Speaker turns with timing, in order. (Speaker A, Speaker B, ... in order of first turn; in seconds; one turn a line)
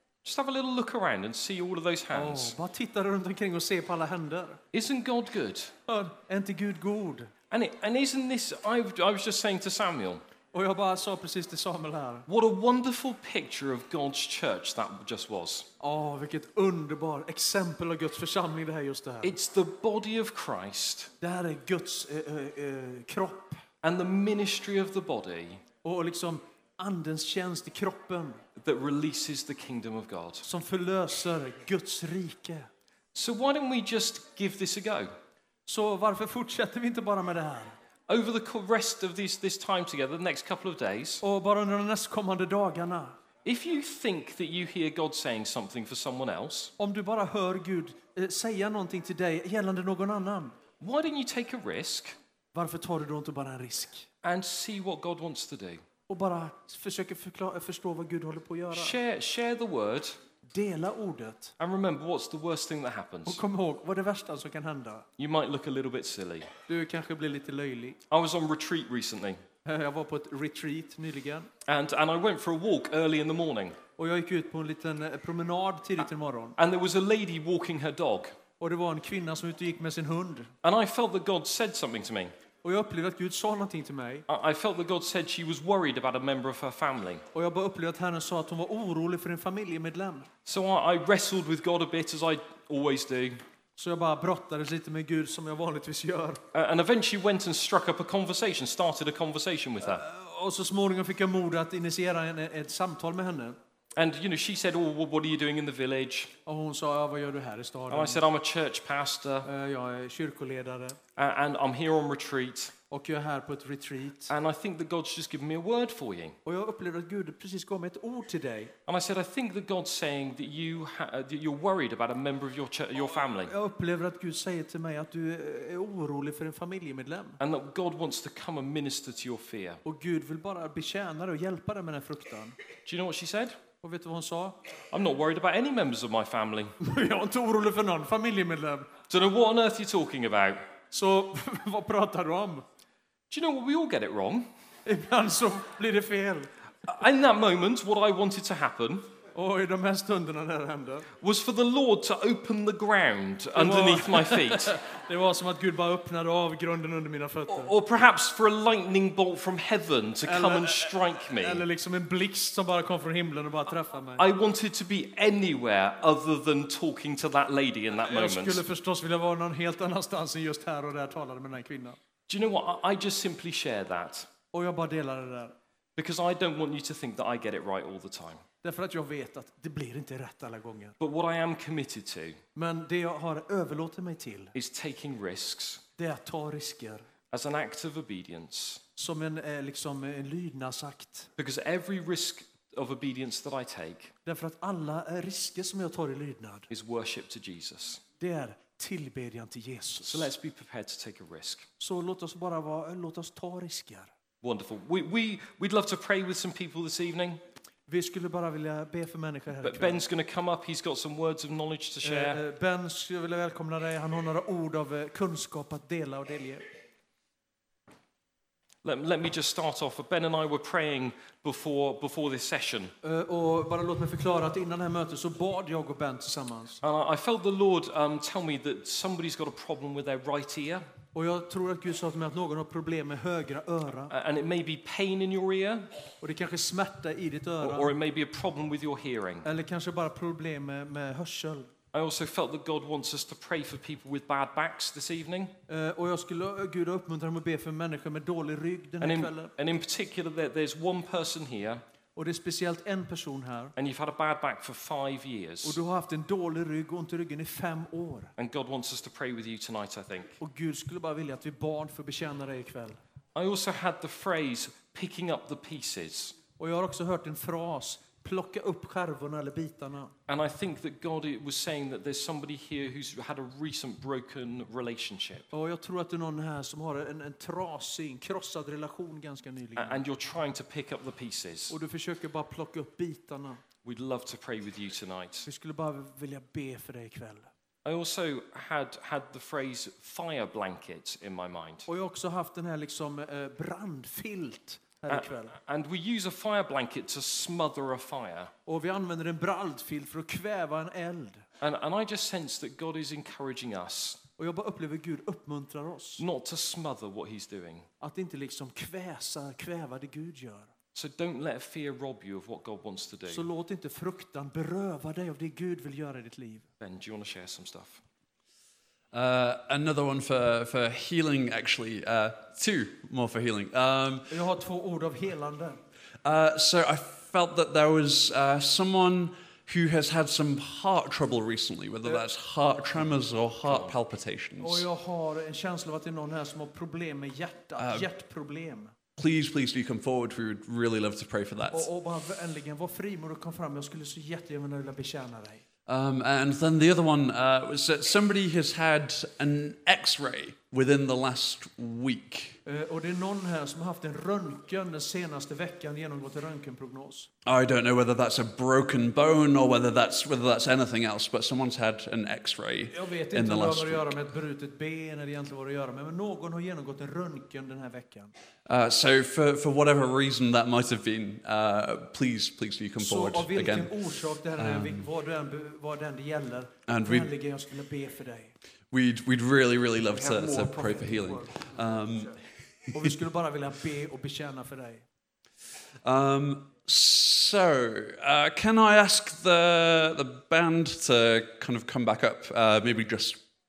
Speaker A: 0.2-2.6
Speaker B: 2.1-4.6
Speaker A: 4.7-5.7
Speaker B: 5.9-7.3
Speaker A: 7.5-10.2
Speaker B: 10.5-12.3
Speaker A: 12.3-15.7
Speaker B: 15.8-19.3
Speaker A: 19.2-21.1
Speaker B: 21.2-23.6
Speaker A: 23.8-25.6
Speaker B: 25.8-28.4
Speaker A: 28.6-30.5
Speaker B: 30.4-32.7
Speaker A: 33.1-35.1
Speaker B: 35.7-37.7
Speaker A: 38.1-41.2
Speaker B: 41.2-43.2
Speaker A: 43.5-46.7
Speaker B: 46.8-50.6
Speaker A: 50.8-52.2
Speaker B: 52.5-54.1
Speaker A: 54.2-55.8
Speaker B: 56.1-59.0
Speaker A: 58.7-60.2
Speaker B: 60.5-61.5
Speaker A: 61.6-63.4
Speaker B: 63.3-65.1
Speaker A: 65.2-66.5
Speaker B: 66.7-68.0
Speaker A: 68.1-69.4
Speaker B: 69.7-71.5
Speaker A: 71.7-73.8
Speaker B: 74.0-76.6
Speaker A: 76.6-78.4
Speaker B: 78.6-80.5
Speaker A: 80.6-82.3
Speaker B: 82.6-84.3
Speaker A: 84.3-87.2
Speaker B: 87.3-90.3
Speaker A: 90.5-93.4
Speaker B: 93.8-96.4
Speaker A: 96.5-100.0
Speaker B: 99.8-103.6
Speaker A: 104.0-106.3
Speaker B: 106.5-108.2
Speaker A: 107.9-109.5
Speaker B: 109.5-111.0
Speaker A: 111.2-112.8
Speaker B: 112.9-114.3
Speaker A: 114.3-116.4
Speaker B: 116.5-118.7
Speaker A: 118.9-123.5
Speaker B: 123.5-127.4
Speaker A: 127.4-129.8
Speaker B: 129.8-132.6
Speaker A: 132.9-133.6
Speaker B: 133.8-134.6
Speaker A: 134.9-136.8
Speaker B: 136.8-138.9
Speaker A: 139.1-140.7
Speaker B: 140.9-142.7
Speaker A: 143.3-144.5
Speaker B: 144.9-146.5
Speaker A: 146.8-149.1
Speaker B: 149.3-151.1
Speaker A: 151.2-154.8
Speaker B: 153.6-157.7
Speaker A: 157.5-161.7
Speaker B: 160.2-164.2
Speaker A: 164.2-168.6
Speaker B: 168.1-172.0
Speaker A: 172.3-174.3
Speaker B: 174.5-175.6
Speaker A: 176.0-178.4
Speaker B: 178.6-181.0
Speaker A: 181.0-182.4
Speaker B: 182.6-184.5
Speaker A: 184.5-185.8
Speaker B: 186.0-187.1
Speaker A: 187.3-188.8
Speaker B: 189.0-191.3
Speaker A: 191.4-194.1
Speaker B: 194.2-196.7
Speaker A: 196.7-198.0
Speaker B: 198.2-200.3
Speaker A: 200.0-201.7
Speaker B: 201.8-204.1
Speaker A: 204.4-207.4
Speaker B: 207.9-210.0
Speaker A: 209.6-212.4
Speaker B: 212.0-216.7
Speaker A: 218.8-222.9
Speaker B: 223.0-226.8
Speaker A: 226.8-230.9
Speaker B: 231.1-234.1
Speaker A: 234.1-235.9
Speaker B: 236.2-237.9
Speaker A: 237.6-239.5
Speaker B: 239.4-241.7
Speaker A: 241.9-245.6
Speaker B: 245.7-249.5
Speaker A: 249.0-251.8
Speaker B: 252.2-253.7
Speaker A: 253.8-255.8
Speaker B: 255.6-258.3
Speaker A: 258.4-260.4
Speaker B: 260.4-263.0
Speaker A: 263.4-266.4
Speaker B: 266.6-270.1
Speaker A: 270.3-275.5
Speaker B: 275.5-280.0
Speaker A: 279.8-281.8
Speaker B: 281.7-283.6
Speaker A: 283.8-285.5
Speaker B: 285.4-287.5
Speaker A: 287.9-291.9
Speaker B: 291.9-295.5
Speaker A: 295.1-298.5
Speaker B: 298.7-301.4
Speaker A: 301.6-304.2
Speaker B: 304.4-306.2
Speaker A: 306.2-307.9
Speaker B: 308.0-310.7
Speaker A: 310.9-313.4
Speaker B: 313.3-316.7
Speaker A: 316.8-318.0
Speaker C: 319.1-324.4
Speaker B: 324.3-325.8
Speaker C: 326.2-334.9
Speaker A: 333.6-333.9
Speaker B: 334.6-338.9
Speaker C: 337.8-338.1
Speaker C: 339.2-341.9
Speaker B: 341.7-345.6
Speaker C: 345.9-352.6
Speaker B: 352.7-357.3
Speaker C: 357.4-364.2
Speaker B: 362.9-368.3
Speaker C: 368.7-374.0
Speaker B: 373.0-378.5
Speaker C: 374.6-375.1
Speaker C: 376.9-377.3
Speaker C: 378.9-382.4
Speaker B: 380.2-381.5
Speaker B: 382.9-385.1
Speaker C: 386.0-393.4